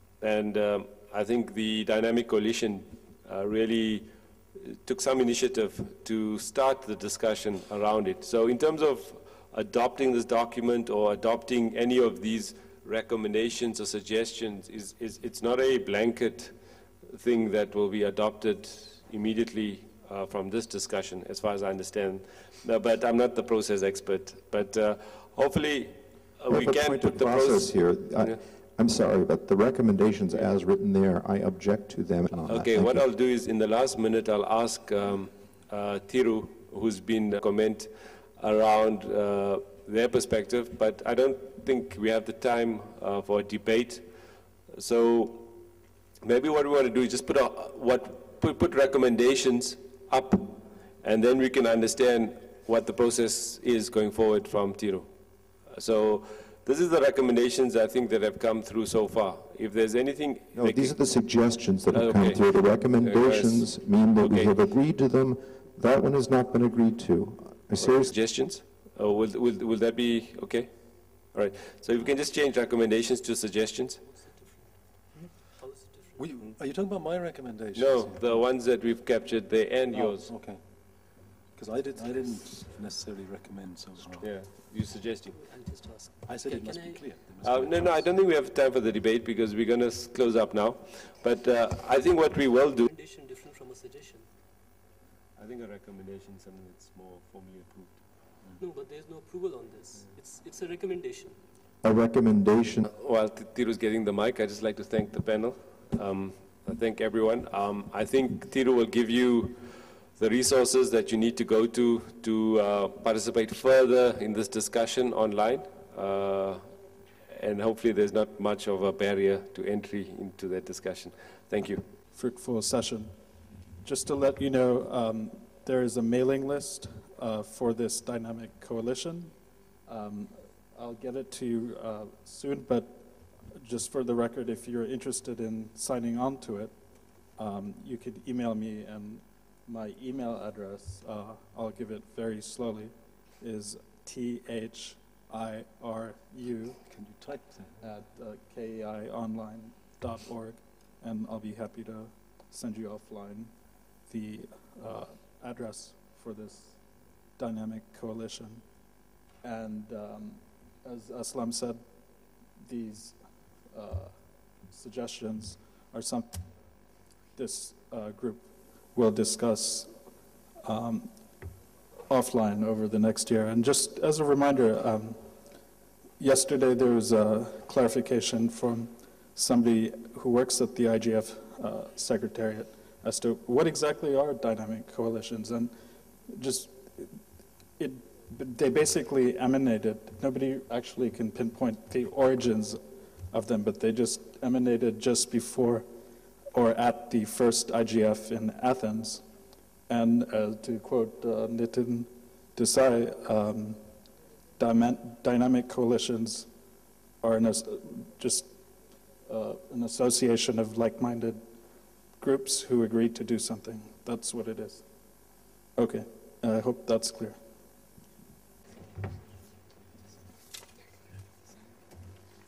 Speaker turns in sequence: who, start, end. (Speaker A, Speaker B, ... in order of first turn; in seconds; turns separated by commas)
Speaker A: 0.2-28.4, Speaker B: 26.5-33.1, Speaker A: 32.4-45.7, Speaker A: 46.2-64.6, Speaker B: 60.5-68.2, Speaker A: 67.8-74.1, Speaker C: 74.1-76.5, Speaker D: 76.2-78.5, Speaker A: 77.7-80.3, Speaker D: 79.9-84.3, Speaker A: 84.2-85.4, Speaker C: 85.4-87.2, Speaker D: 86.2-88.1, Speaker A: 87.4-92.9, Speaker C: 92.9-94.3, Speaker A: 95.4-98.0, Speaker C: 98.6-101.4, Speaker B: 101.8-102.9, Speaker A: 102.8-121.8, Speaker E: 122.1-123.2, Speaker E: 123.8-146.8, Speaker D: 146.9-147.8, Speaker E: 147.8-153.5, Speaker E: 154.1-156.8, Speaker E: 157.4-158.7, Speaker E: 159.4-161.8, Speaker E: 162.6-166.4, Speaker E: 167.3-170.0, Speaker E: 170.6-171.2, Speaker E: 172.1-175.3, Speaker E: 176.2-187.2, Speaker E: 187.8-195.9, Speaker E: 196.5-199.3, Speaker E: 199.9-203.9, Speaker E: 204.6-206.5, Speaker E: 207.2-208.6, Speaker E: 209.2-211.5, Speaker E: 212.2-214.9, Speaker E: 215.8-217.4